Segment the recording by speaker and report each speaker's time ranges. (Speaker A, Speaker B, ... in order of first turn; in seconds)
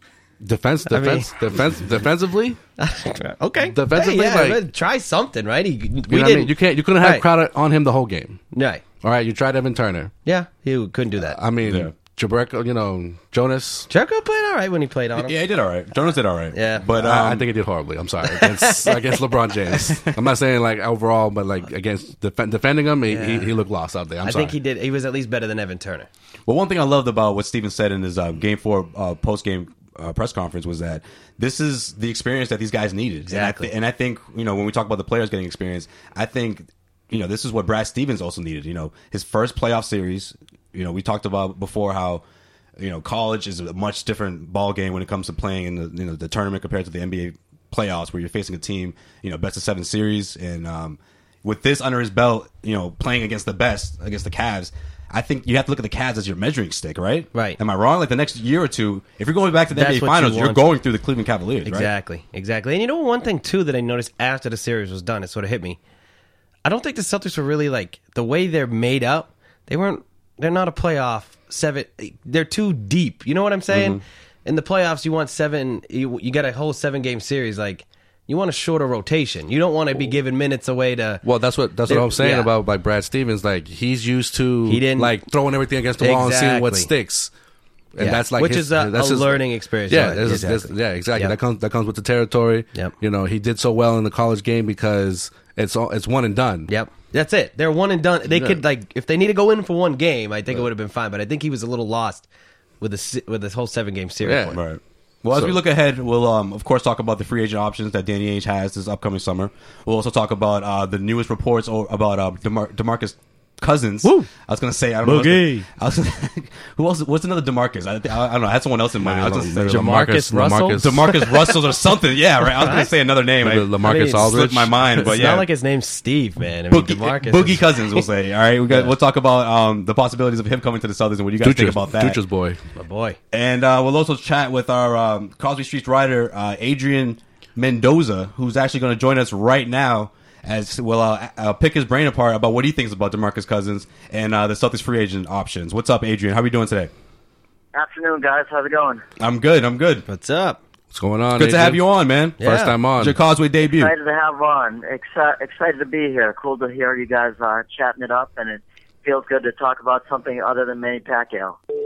Speaker A: 0.4-2.6, 3.7-4.7, 6.1-8.4, 9.0-10.1, 11.2-13.9, 17.0-24.6, 81.2-87.3, 87.9-96.7, 98.3-98.6, 104.2-104.6, 119.3-121.1, 123.4-125.1, 131.4-132.6, 150.9-151.8, 152.4-153.2
Speaker B: 0.9-1.3, 2.8-7.3, 8.5-8.8, 10.2-11.4, 13.9-15.3, 16.5-16.9, 18.2-19.3, 23.1-23.5, 24.2-26.1, 33.3-33.7, 59.7-60.6, 61.6-65.8, 66.6-81.2, 81.9-82.5, 84.6-85.1, 86.0-86.9, 88.0-91.3, 96.7-102.3, 102.8-104.6, 115.0-115.7, 119.1-121.5, 122.6-122.9, 123.8-124.3, 125.0-128.1, 132.7-133.2, 150.1-150.6, 152.4-152.8
Speaker C: 11.6-11.9, 15.2-17.5, 26.4-42.2, 42.8-61.9, 73.7-74.0, 104.5-120.2, 120.8-125.5, 126.7-132.2, 133.3-146.9, 149.2-150.0, 151.4-152.4, 153.0-153.9
Speaker D: 147.7-149.0, 153.7-161.6